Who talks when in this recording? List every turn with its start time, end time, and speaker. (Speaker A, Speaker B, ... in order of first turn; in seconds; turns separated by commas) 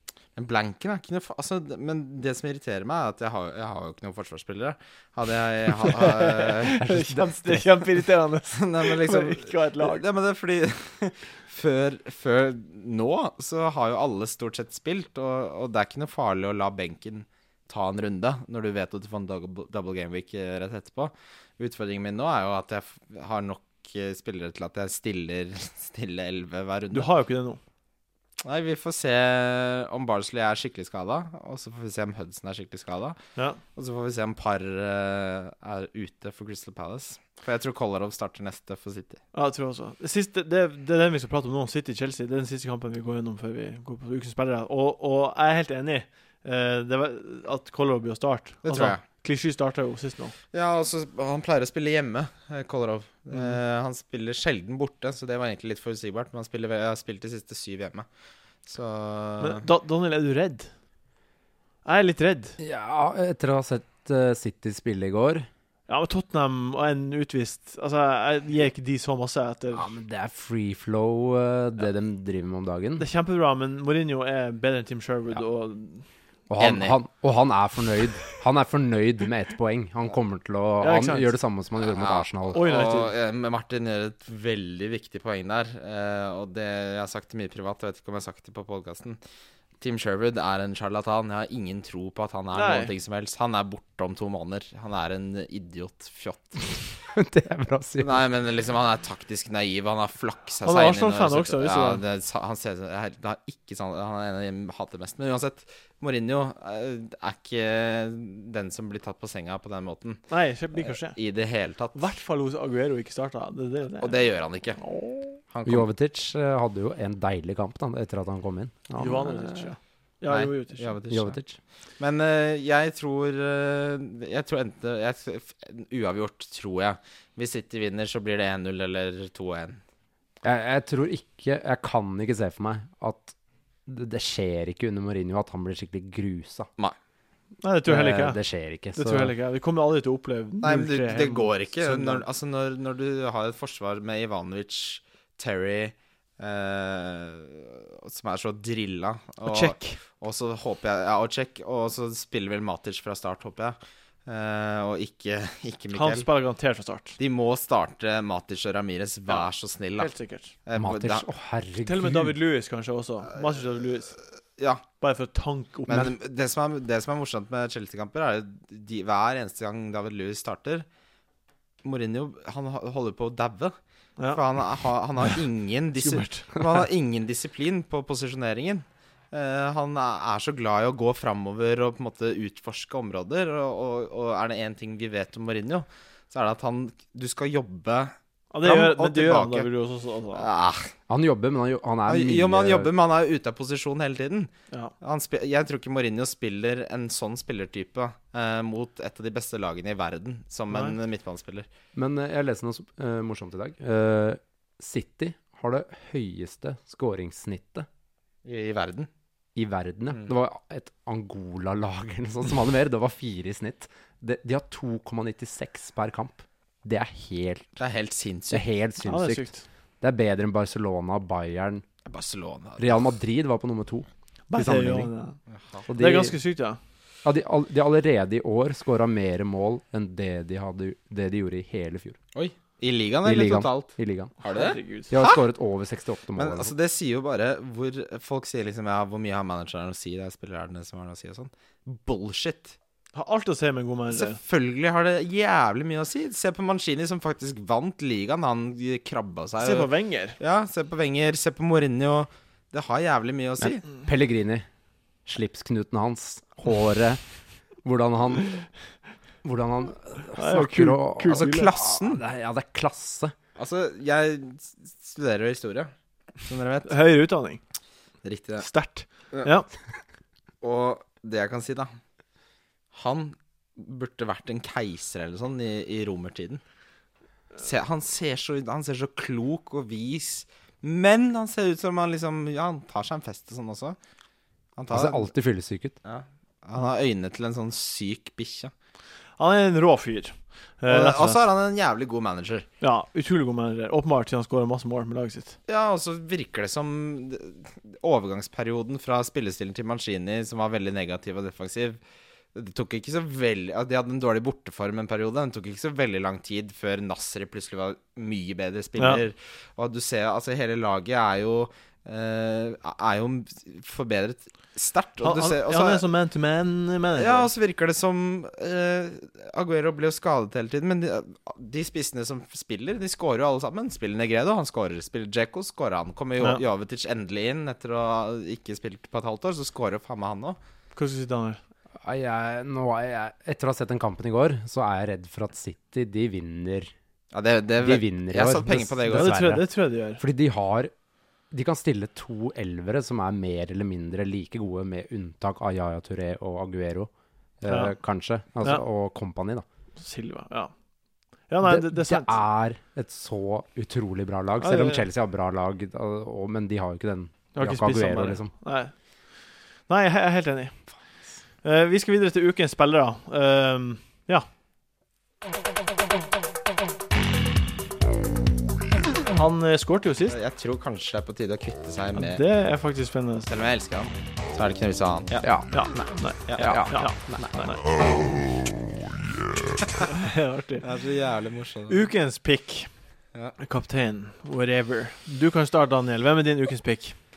Speaker A: 0.4-6.9, Speaker B: 5.9-10.0, Speaker C: 6.8-7.7, Speaker A: 8.5-27.1, Speaker B: 26.9-27.6, Speaker A: 28.4-33.2, Speaker A: 33.8-39.2, Speaker B: 39.3-50.4, Speaker A: 48.6-49.0, Speaker A: 50.5-58.1, Speaker A: 58.7-59.6, Speaker B: 59.4-60.7, Speaker B: 61.9-62.6, Speaker C: 62.6-65.5, Speaker B: 65.9-69.9, Speaker C: 69.7-73.0, Speaker B: 73.0-76.1, Speaker C: 76.5-82.6, Speaker A: 76.6-77.0, Speaker B: 80.8-81.4, Speaker A: 81.8-89.2, Speaker B: 82.5-83.1, Speaker A: 89.8-96.9, Speaker B: 92.5-92.9, Speaker C: 97.1-98.2, Speaker A: 98.0-112.0, Speaker B: 100.6-102.0, Speaker B: 110.3-111.2, Speaker B: 112.0-114.2, Speaker A: 114.0-114.8, Speaker B: 114.8-115.4, Speaker A: 115.5-115.9, Speaker C: 115.7-119.8, Speaker B: 119.0-120.9, Speaker A: 120.3-121.4, Speaker C: 121.1-121.6, Speaker A: 122.0-129.8, Speaker C: 130.4-133.3, Speaker C: 133.9-136.7, Speaker B: 137.6-138.4, Speaker C: 137.9-139.3, Speaker B: 138.9-142.2, Speaker A: 140.6-156.3, Speaker B: 149.4-150.0, Speaker B: 155.9-157.2, Speaker A: 157.2-160.1, Speaker B: 160.0-160.5, Speaker A: 160.7-161.3, Speaker C: 160.8-162.3, Speaker B: 161.8-164.2, Speaker A: 164.6-164.8, Speaker B: 165.0-166.2, Speaker A: 165.9-170.9, Speaker A: 171.8-173.8, Speaker A: 174.3-189.7, Speaker B: 176.0-176.7, Speaker B: 188.5-190.5, Speaker A: 190.3-190.9, Speaker C: 191.1-192.9, Speaker A: 192.1-201.7, Speaker B: 200.7-201.0, Speaker C: 201.9-207.9, Speaker A: 208.4-209.1, Speaker C: 209.6-217.7, Speaker A: 217.8-218.7, Speaker C: 218.5-219.5, Speaker B: 219.0-219.6, Speaker C: 220.0-221.8, Speaker A: 222.1-223.0, Speaker C: 222.8-225.1, Speaker B: 224.5-225.4, Speaker A: 225.5-225.9, Speaker C: 225.9-226.4, Speaker B: 225.9-226.8, Speaker C: 227.2-232.2, Speaker A: 232.3-235.4, Speaker C: 233.2-234.3, Speaker B: 234.4-235.1, Speaker C: 235.1-236.7, Speaker A: 236.4-242.8, Speaker B: 243.2-244.4, Speaker A: 244.1-253.9, Speaker B: 249.6-250.4, Speaker C: 253.6-254.7, Speaker C: 255.3-257.2, Speaker C: 257.8-258.7, Speaker C: 259.4-263.4, Speaker B: 260.4-261.7, Speaker A: 261.3-262.2, Speaker A: 263.6-265.9, Speaker A: 266.4-267.0, Speaker B: 266.9-267.6, Speaker A: 268.2-268.7, Speaker B: 268.6-269.7, Speaker A: 270.6-271.9, Speaker A: 272.9-276.6, Speaker A: 277.6-284.0, Speaker A: 284.8-285.3, Speaker C: 284.9-286.0, Speaker A: 286.1-288.7, Speaker B: 289.4-291.4, Speaker A: 290.9-292.7, Speaker B: 292.8-295.6, Speaker A: 295.7-302.0, Speaker A: 302.6-316.0, Speaker B: 309.0-309.2, Speaker B: 315.2-317.5, Speaker A: 317.2-330.6, Speaker B: 330.9-331.6, Speaker C: 332.0-336.9, Speaker A: 337.3-339.4, Speaker C: 337.8-339.7, Speaker B: 339.1-340.2, Speaker C: 340.2-340.9, Speaker C: 341.5-347.1, Speaker C: 347.6-349.6, Speaker B: 347.7-347.9, Speaker B: 350.0-350.7, Speaker B: 351.5-352.4, Speaker C: 351.6-358.5, Speaker B: 354.6-355.1, Speaker B: 357.6-358.9, Speaker B: 359.9-360.8, Speaker B: 361.6-364.5, Speaker B: 369.2-370.4, Speaker A: 370.3-372.4, Speaker B: 372.1-373.5, Speaker A: 373.5-377.0, Speaker C: 375.4-375.7, Speaker B: 375.7-377.9, Speaker C: 376.6-377.0, Speaker B: 380.0-380.9, Speaker A: 380.8-382.1, Speaker B: 381.9-382.9, Speaker B: 383.6-387.2